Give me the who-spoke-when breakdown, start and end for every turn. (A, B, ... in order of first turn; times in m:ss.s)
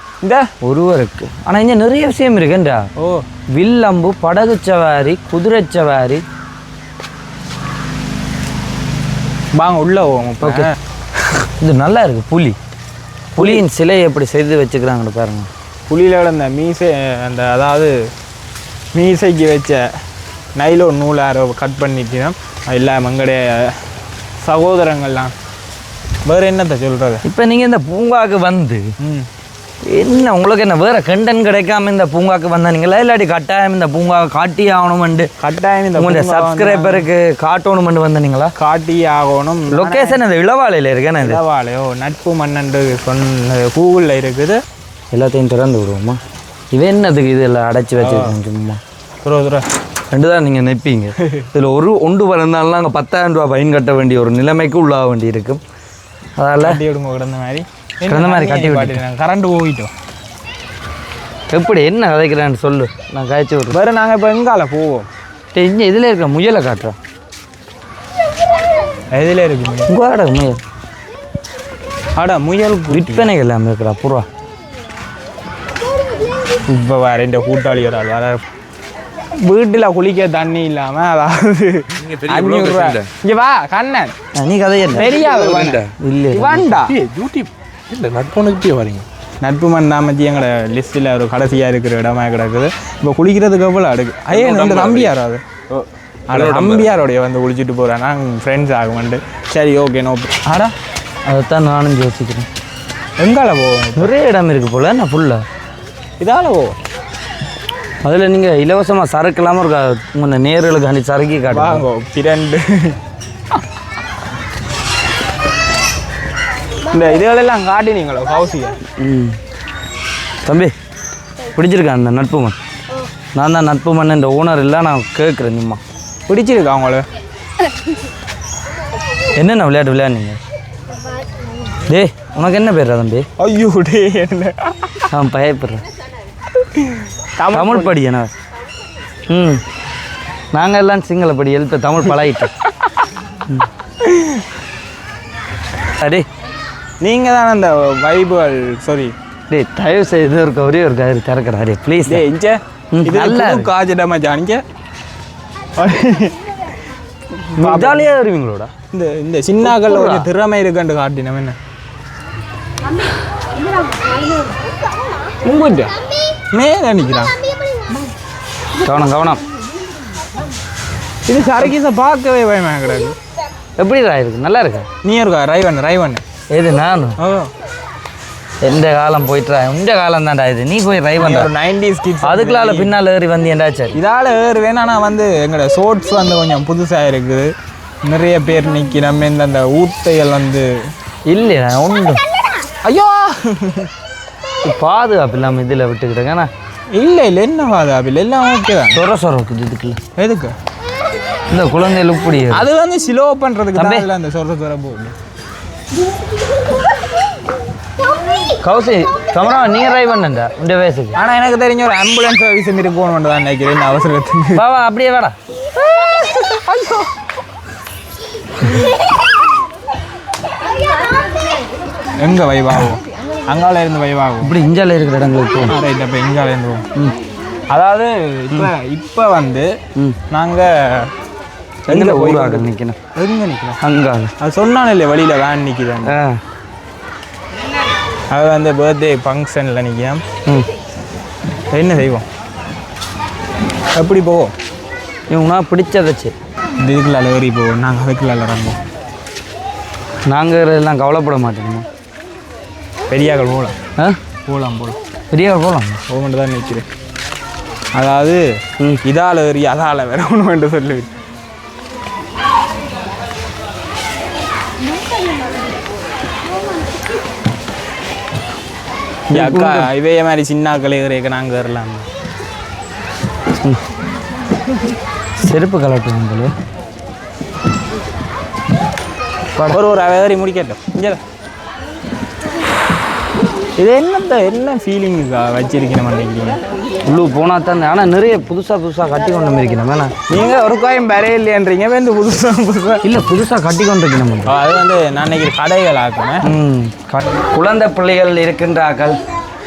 0:00.2-0:00.5 A
0:00.6-0:02.9 B
0:03.0-0:03.3 A
0:03.5-0:06.2 B
0:09.6-0:10.8 A
0:10.4-0:10.7 B
0:11.6-0:12.6 B
0:13.3-0:15.5 B
0:13.4-0:13.6 A
0:15.9-0:18.1 A
0:19.0-0:19.8 A
0:20.6-0:23.8 A
0:24.4-0:25.3 A
0:26.3-0:27.2 A
0:27.2-0:29.0 B
0:29.0-0:29.3 A
0:29.8-0:35.3 B
0:35.4-0:37.1 A
0:36.0-0:38.5 B
0:38.6-0:40.2 A
0:39.7-0:41.4 B
0:41.2-0:44.6 A
0:45.1-0:46.2 B
0:46.7-0:48.8 B
0:48.0-0:48.4 A
0:49.2-0:49.7 A
0:50.1-0:55.6 B
0:56.4-0:56.8 B
0:56.6-0:59.9 A
0:58.1-0:59.0 B
1:01.5-1:03.8 B
1:03.7-1:05.1 A
1:05.5-1:07.0 B
1:09.1-1:09.9 A
1:09.9-1:10.6 B
1:12.2-1:13.3 A
1:12.9-1:14.3 B
1:16.6-1:18.4 A
1:19.4-1:24.2 A
1:22.0-1:23.1 C
1:24.3-1:25.2 B
1:24.9-1:27.0 A
1:25.0-1:25.9 C
1:25.9-1:26.8 B
1:26.8-1:29.1 C
1:29.4-1:35.4 A
1:34.3-1:35.1 C
1:36.3-1:40.7 A
1:36.3-1:36.9 B
1:41.2-1:42.5 B
1:43.2-1:44.1 A
1:44.0-1:45.4 B
1:46.2-1:46.8 A
1:48.0-1:51.8 B
1:51.5-1:53.0 A
1:56.9-1:58.8 A
1:59.0-1:59.4 B
2:00.4-2:00.7 B
2:01.6-2:02.6 B
2:03.4-2:05.8 B
2:06.3-2:07.1 A
2:09.3-2:10.4 B
2:11.9-2:13.3 B
2:13.4-2:15.1 A
2:15.1-2:15.8 B
2:16.7-2:18.0 A
2:17.5-2:18.3 B
2:19.3-2:19.6 B
2:20.5-2:22.5 B
2:24.0-2:24.4 A
2:26.0-2:26.3 B
2:27.0-2:29.2 A
2:29.5-2:32.2 B
2:32.1-2:34.6 A
2:32.9-2:33.7 B
2:35.8-2:36.4 A
2:37.5-2:38.1 A
2:37.6-2:38.7 B
2:38.9-2:41.6 A
2:39.6-2:40.3 B
2:45.4-2:45.9 A
2:46.5-2:47.3 A
2:48.8-2:49.4 B
2:51.3-2:53.2 A
2:53.8-2:54.9 B
2:55.0-2:56.2 A
2:56.5-2:57.2 B
2:57.2-2:57.5 A
2:58.6-3:01.5 B
3:01.2-3:02.9 A
3:02.2-3:04.0 B
3:03.9-3:07.5 A
3:08.0-3:10.7 A
3:11.3-3:12.2 B
3:12.8-3:13.9 A
3:14.6-3:16.5 B
3:16.9-3:19.0 A
3:18.9-3:20.0 B
3:20.2-3:20.6 A
3:21.5-3:22.7 B
3:22.5-3:25.2 A
3:23.8-3:24.1 B
3:28.6-3:31.2 B
3:31.2-3:34.6 A
3:34.5-3:35.4 B
3:36.0-3:37.1 A
3:42.2-3:44.6 A
3:44.4-3:45.8 B
3:45.7-3:46.9 A
3:47.7-3:49.7 A
3:50.3-3:51.1 A
3:51.9-3:53.8 A
3:51.9-3:53.0 B
3:53.8-3:54.3 B
3:54.4-3:56.2 A
3:56.0-3:56.4 B
3:58.3-4:00.2 A
4:01.7-4:02.3 A
4:04.0-4:04.5 A
4:05.3-4:06.4 B
4:06.8-4:08.8 A
4:10.3-4:11.9 B
4:13.1-4:13.8 A
4:14.5-4:15.0 A
4:15.3-4:16.0 B
4:16.1-4:16.9 A
4:18.0-4:18.5 A
4:19.0-4:21.1 A
4:29.3-4:29.9 B
4:29.3-4:32.1 A
4:35.4-4:36.5 B
4:39.7-4:41.2 A
4:43.8-4:46.6 A
4:47.0-4:50.2 B
4:50.3-4:53.0 A
4:53.0-4:54.5 B
4:54.5-4:56.5 A
4:56.4-4:59.2 B